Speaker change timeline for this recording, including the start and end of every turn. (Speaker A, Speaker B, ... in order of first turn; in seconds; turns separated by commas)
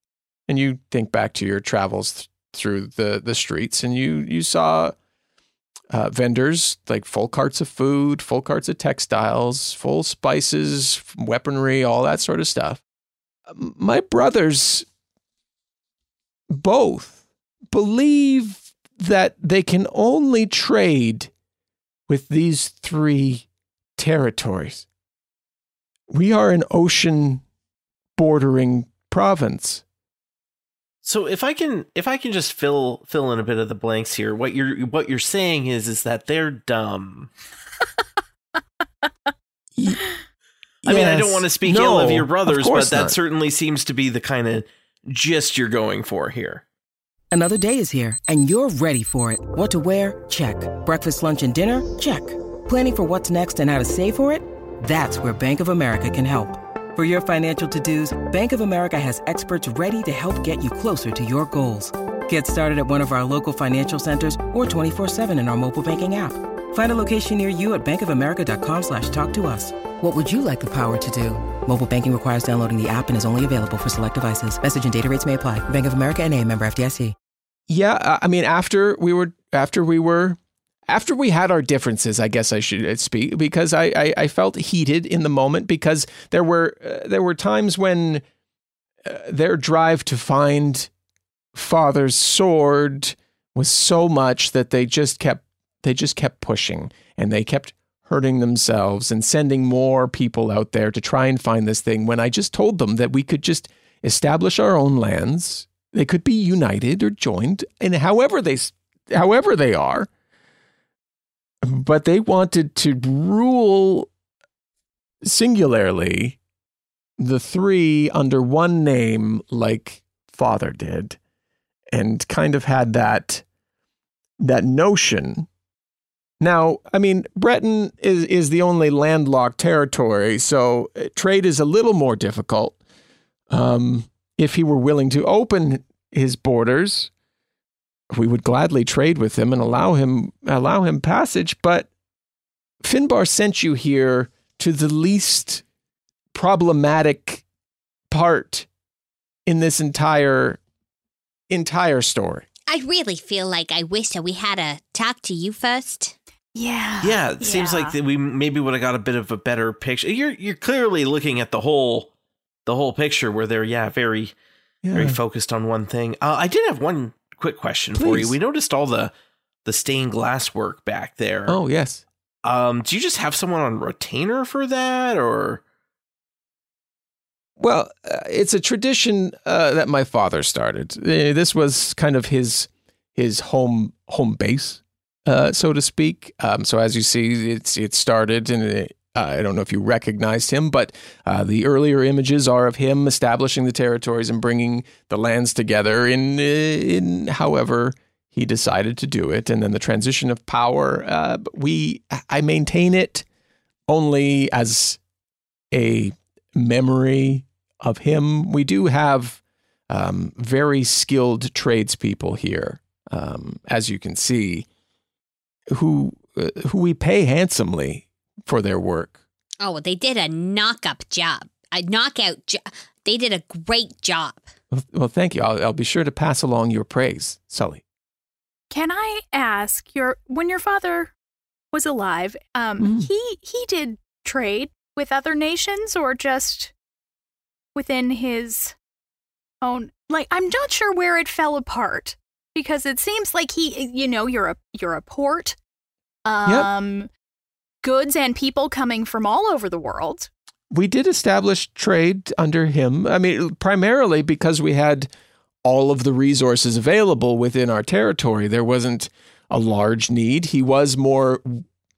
Speaker A: 0.5-4.9, Speaker A: 5.9-12.8, Speaker A: 13.5-14.8, Speaker A: 16.5-17.2, Speaker A: 17.7-21.3, Speaker A: 22.1-23.4, Speaker A: 24.0-24.9, Speaker A: 26.1-27.4, Speaker A: 28.1-29.8, Speaker B: 31.0-37.3, Speaker A: 39.8-40.0, Speaker A: 40.8-43.2, Speaker B: 40.8-46.6, Speaker C: 47.3-77.1, Speaker A: 77.7-88.2, Speaker A: 89.0-90.9, Speaker A: 91.5-110.1, Speaker A: 111.6-114.1, Speaker A: 115.2-116.4, Speaker A: 117.2-121.2, Speaker A: 121.9-123.4, Speaker A: 124.4-125.5, Speaker A: 126.4-132.8, Speaker A: 133.5-137.1, Speaker A: 138.1-141.9, Speaker A: 142.8-145.6, Speaker A: 146.3-147.4, Speaker A: 148.1-148.7, Speaker A: 149.4-150.6, Speaker A: 151.5-152.5, Speaker D: 152.7-156.2, Speaker E: 156.5-158.0, Speaker B: 157.0-162.1, Speaker B: 162.7-164.3, Speaker A: 164.8-165.2, Speaker B: 164.9-169.1, Speaker A: 167.9-168.3, Speaker B: 169.6-171.6, Speaker A: 171.5-172.0, Speaker B: 172.4-175.6, Speaker A: 177.6-203.2, Speaker A: 203.9-205.0, Speaker A: 205.7-214.7, Speaker A: 215.7-219.2, Speaker D: 219.6-224.5, Speaker A: 224.7-227.8, Speaker E: 228.7-231.1, Speaker E: 231.7-236.7, Speaker A: 232.8-233.1, Speaker E: 237.7-238.7, Speaker E: 239.6-245.6, Speaker E: 246.2-247.1, Speaker E: 247.8-250.3, Speaker A: 250.7-255.1, Speaker A: 255.6-261.6